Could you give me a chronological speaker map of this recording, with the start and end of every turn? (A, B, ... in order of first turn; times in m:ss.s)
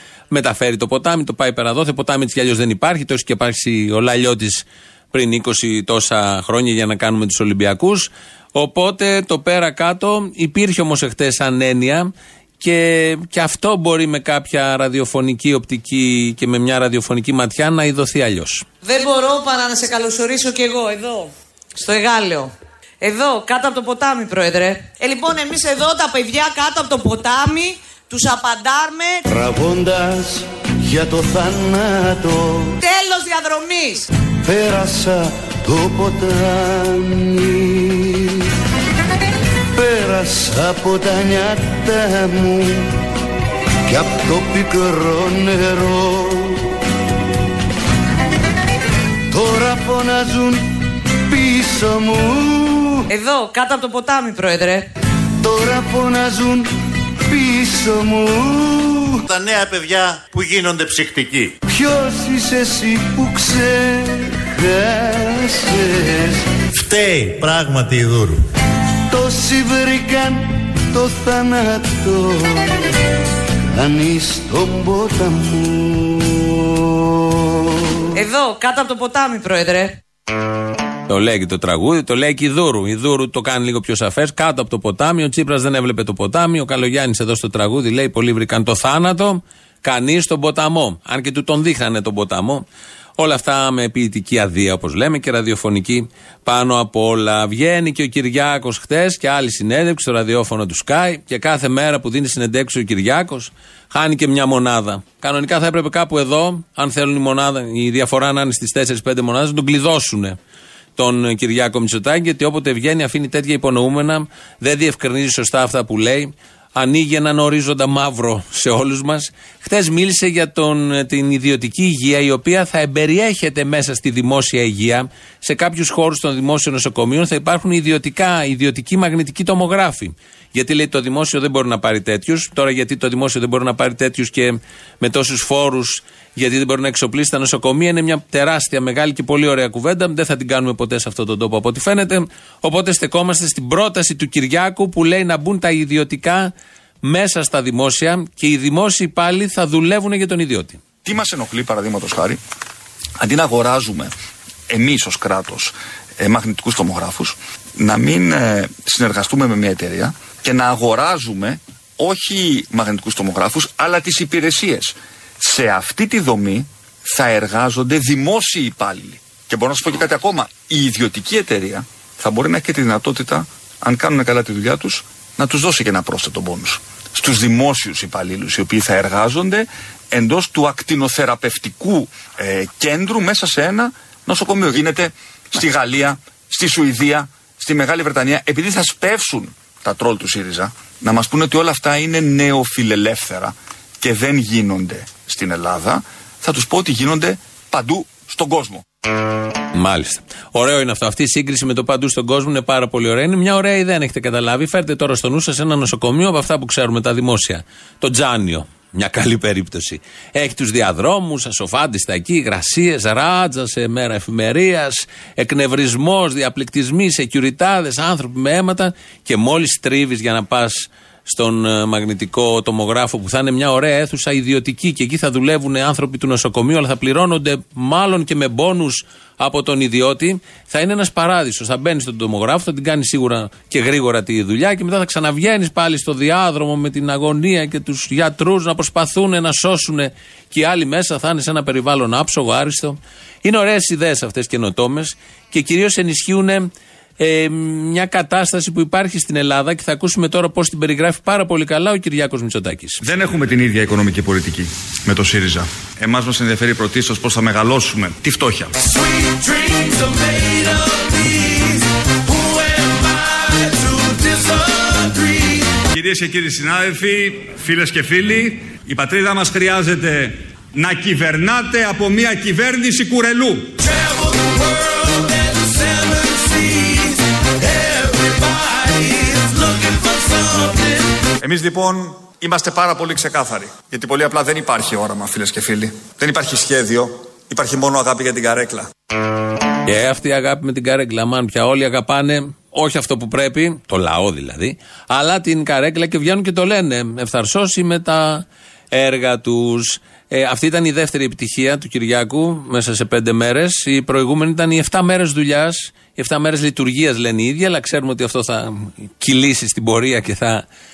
0:00.3-0:18.6 A
0:18.8-0:29.2 B
0:29.3-0:32.8 C
0:32.8-0:34.1 B
0:34.4-0:38.4 C
0:39.7-0:43.0 C
0:43.8-0:46.7 C
0:49.3-0:53.0 C
0:53.1-0:54.9 B
0:55.4-0:59.2 C
0:59.3-1:01.5 D
1:01.7-1:06.4 C
1:06.7-1:08.4 D
1:09.1-1:12.8 C
1:13.7-1:17.1 C
1:18.1-1:20.0 B
1:21.1-1:32.6 A
1:33.2-1:50.4 A
1:51.0-2:26.5 A
2:27.0-2:30.8 A
2:31.0-2:32.4 E
2:33.2-2:34.1 E
2:34.7-3:18.8 E
3:19.7-4:13.0 A
4:13.0-4:18.7 E
4:41.4-4:48.9 E
4:49.8-5:10.6 A